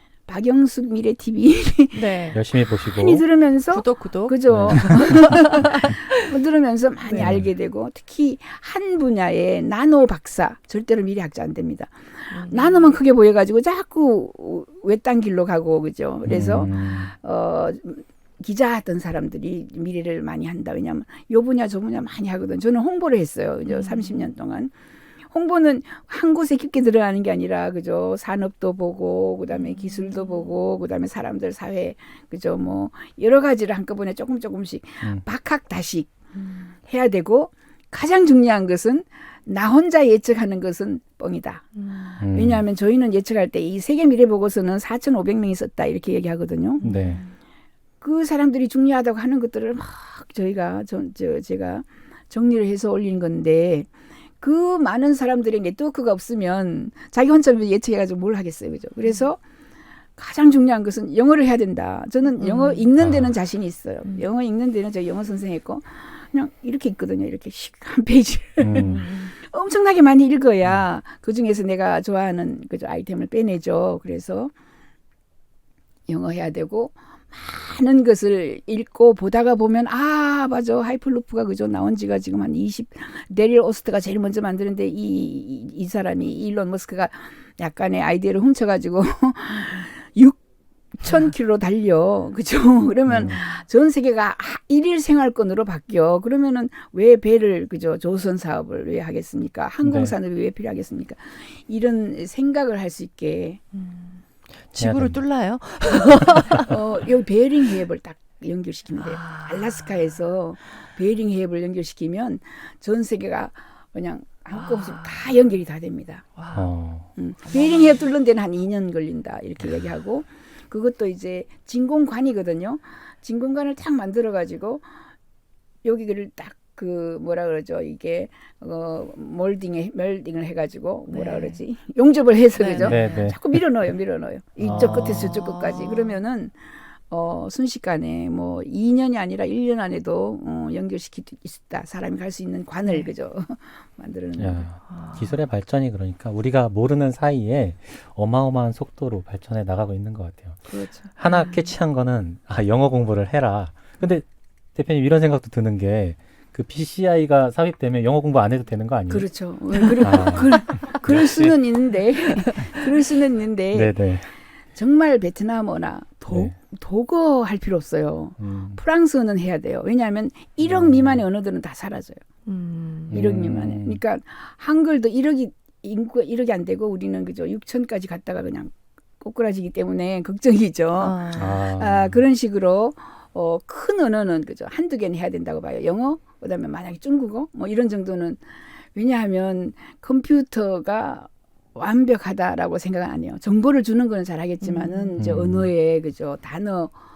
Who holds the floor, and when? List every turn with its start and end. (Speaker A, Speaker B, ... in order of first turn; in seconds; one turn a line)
Speaker A: 0.3-2.3
Speaker B: 1.9-2.4
Speaker C: 2.3-3.2
Speaker A: 2.9-24.7
Speaker B: 3.7-6.2
Speaker C: 4.5-5.6
Speaker C: 7.2-7.5
Speaker B: 12.3-12.9
Speaker C: 16.2-17.1
Speaker B: 16.7-17.0
Speaker B: 23.6-24.2
Speaker A: 25.3-36.2
Speaker B: 29.5-30.5
Speaker B: 36.4-36.7
Speaker A: 36.8-41.7
Speaker B: 41.7-42.2
Speaker C: 42.2-42.6
Speaker A: 42.3-46.8
Speaker B: 46.8-47.3
Speaker C: 46.8-47.2
Speaker A: 48.0-53.9
Speaker A: 54.4-59.4
Speaker A: 60.1-74.5
Speaker B: 62.4-62.9
Speaker C: 63.0-63.3
Speaker C: 68.6-69.0
Speaker B: 68.8-69.3
Speaker A: 76.1-90.4
Speaker B: 89.5-89.9
Speaker A: 91.0-103.6
Speaker C: 93.1-93.4
Speaker B: 93.3-93.6
Speaker C: 99.8-100.1
Speaker B: 103.7-106.8
Speaker C: 104.8-105.2
Speaker A: 106.6-116.3
Speaker B: 109.0-110.1
Speaker B: 114.5-115.3
Speaker B: 116.3-116.7
Speaker C: 116.5-117.1
Speaker A: 117.2-124.8
Speaker B: 117.4-118.0
Speaker A: 125.8-136.6
Speaker B: 131.1-131.6
Speaker B: 132.6-133.3
Speaker C: 132.8-133.6
Speaker C: 134.6-135.3
Speaker B: 134.7-136.2
Speaker A: 137.1-144.7
Speaker C: 144.4-159.3
Speaker B: 144.9-145.4
Speaker A: 150.7-151.0
Speaker B: 151.2-151.7
Speaker A: 159.1-164.0
Speaker C: 160.0-161.6
Speaker C: 163.7-164.3
Speaker A: 164.7-172.2
Speaker C: 166.3-166.5
Speaker C: 168.4-168.8
Speaker C: 170.6-171.2
Speaker B: 172.4-173.1
Speaker C: 173.1-174.0
Speaker A: 173.1-188.4
Speaker B: 181.0-181.6
Speaker C: 181.3-182.2
Speaker A: 188.9-196.9
Speaker B: 194.6-195.2
Speaker C: 195.2-195.7